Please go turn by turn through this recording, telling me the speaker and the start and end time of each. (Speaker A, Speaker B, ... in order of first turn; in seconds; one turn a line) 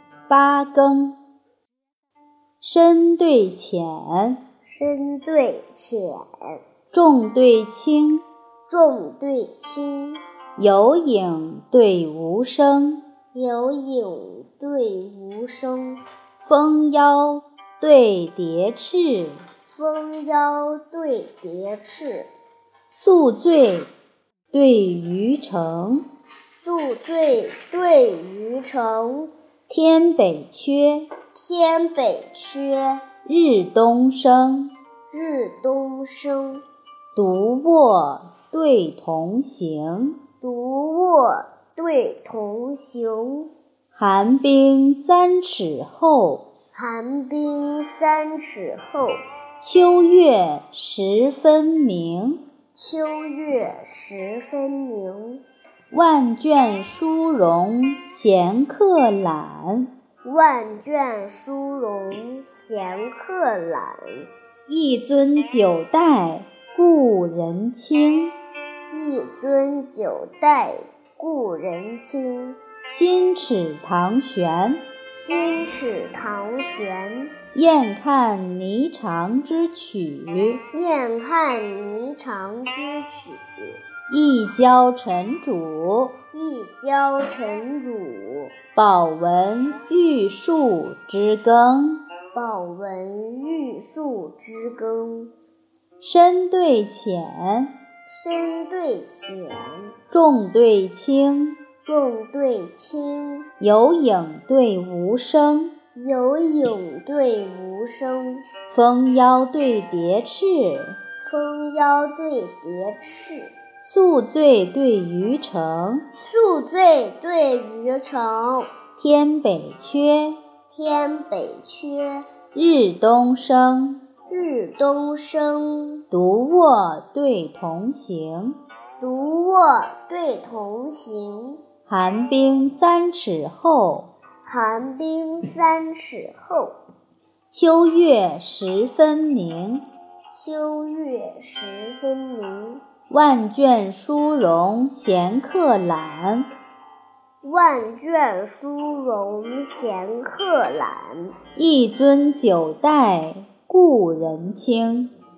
Speaker A: 0.3-1.2
Speaker A: 2.6-4.4
Speaker B: 4.6-6.6
Speaker A: 6.9-8.2
Speaker B: 8.7-10.2
Speaker A: 10.6-13.0
Speaker B: 13.3-16.0
Speaker A: 16.4-19.4
Speaker B: 19.7-22.3
Speaker A: 22.9-23.9
Speaker A: 24.5-26.1
Speaker B: 26.6-29.3
Speaker A: 29.7-31.1
Speaker B: 31.3-33.0
Speaker A: 33.2-34.7
Speaker B: 35.1-36.6
Speaker A: 37.1-40.2
Speaker B: 40.4-43.5
Speaker A: 43.9-46.4
Speaker B: 46.7-49.2
Speaker A: 49.6-52.4
Speaker B: 52.7-55.4
Speaker A: 55.9-59.9
Speaker B: 60.2-64.3
Speaker A: 64.7-68.3
Speaker B: 68.9-72.6
Speaker A: 72.8-74.8
Speaker B: 75.1-77.3
Speaker A: 77.5-80.6
Speaker B: 80.7-83.8
Speaker A: 84.1-86.1
Speaker B: 86.3-88.5
Speaker A: 88.8-92.0
Speaker B: 92.3-95.3
Speaker A: 96.0-97.7
Speaker B: 98.1-99.9
Speaker A: 100.1-101.6
Speaker B: 101.8-103.5
Speaker A: 103.6-105.7
Speaker B: 106.0-108.4
Speaker A: 108.7-111.0
Speaker B: 111.2-113.5
Speaker A: 113.8-116.0
Speaker B: 116.2-118.7
Speaker A: 119.0-120.4
Speaker B: 120.7-122.2
Speaker A: 122.5-124.0
Speaker B: 124.3-126.0
Speaker A: 126.1-128.6
Speaker B: 129.0-131.6
Speaker A: 131.9-134.1
Speaker B: 134.4-136.8
Speaker A: 137.5-139.8
Speaker B: 140.3-142.8
Speaker A: 143.1-146.5
Speaker B: 147.4-151.3
Speaker A: 151.6-155.1